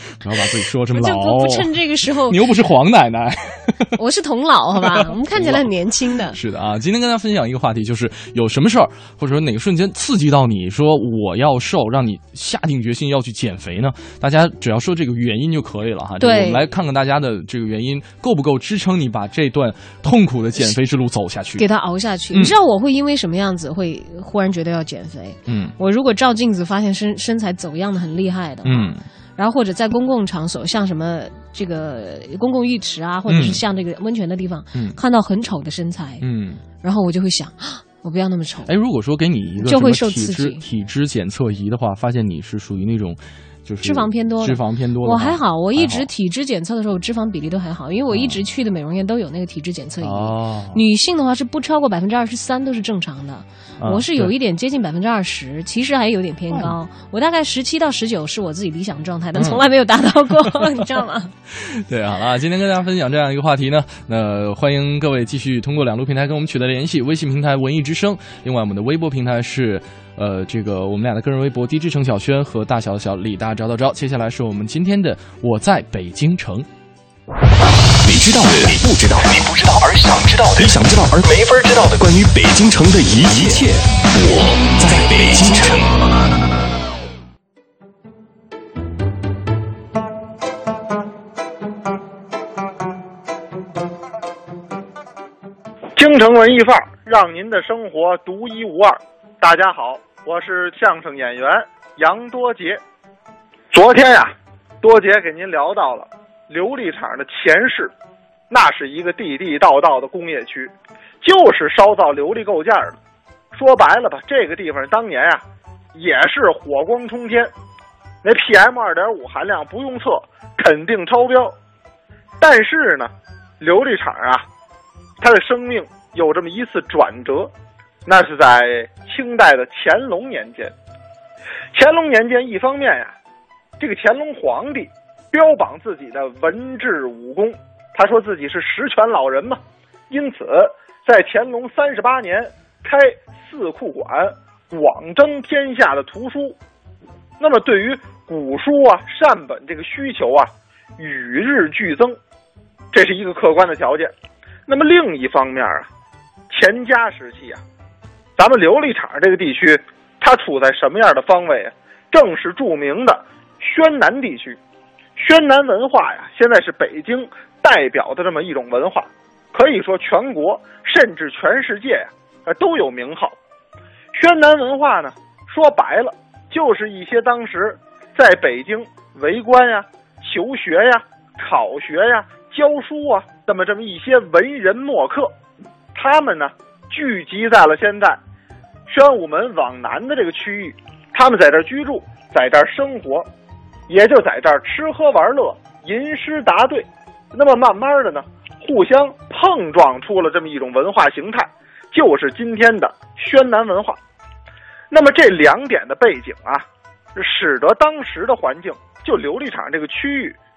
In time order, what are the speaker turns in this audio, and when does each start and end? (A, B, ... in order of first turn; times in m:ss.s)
0:00.2-0:01.7 A
0:00.9-0:02.4 B
0:02.3-0:03.8 A
0:04.0-0:06.4 B
0:04.8-0:05.7 A
0:06.3-0:21.6 A
0:16.2-0:16.7 B
0:21.6-0:36.2 B
0:25.5-0:25.7 A
0:28.6-0:29.0 A
0:33.3-0:33.6 A
0:36.2-0:36.6 A
0:36.8-0:38.7 B
0:38.7-0:46.1 A
0:39.6-0:40.6 B
0:43.8-1:01.3 B
0:48.1-0:48.4 A
0:50.0-0:50.8 A
0:53.8-0:54.3 A
0:59.4-0:59.6 A
1:01.5-1:16.7 A
1:18.0-1:26.0 C
1:36.0-1:42.8 D
1:43.7-1:47.9 D
1:48.5-1:50.7 D
1:51.2-1:53.0 D
1:53.5-1:55.4 D
1:56.0-1:57.5 D
1:58.2-2:01.5 D
2:02.4-2:04.4 D
2:05.2-2:07.5 D
2:08.1-2:10.7 D
2:11.7-2:13.1 D
2:13.8-2:19.6 D
2:20.1-2:26.6 D
2:27.4-2:32.2 D
2:32.9-2:34.1 D
2:34.7-2:35.9 D
2:36.5-2:37.6 D
2:38.4-2:44.6 D
2:45.2-2:53.4 D
2:54.2-3:05.3 D
3:06.0-3:08.2 D
3:08.9-3:13.3 D
3:13.9-3:24.0 D
3:24.9-3:26.6 D
3:27.2-3:30.4 D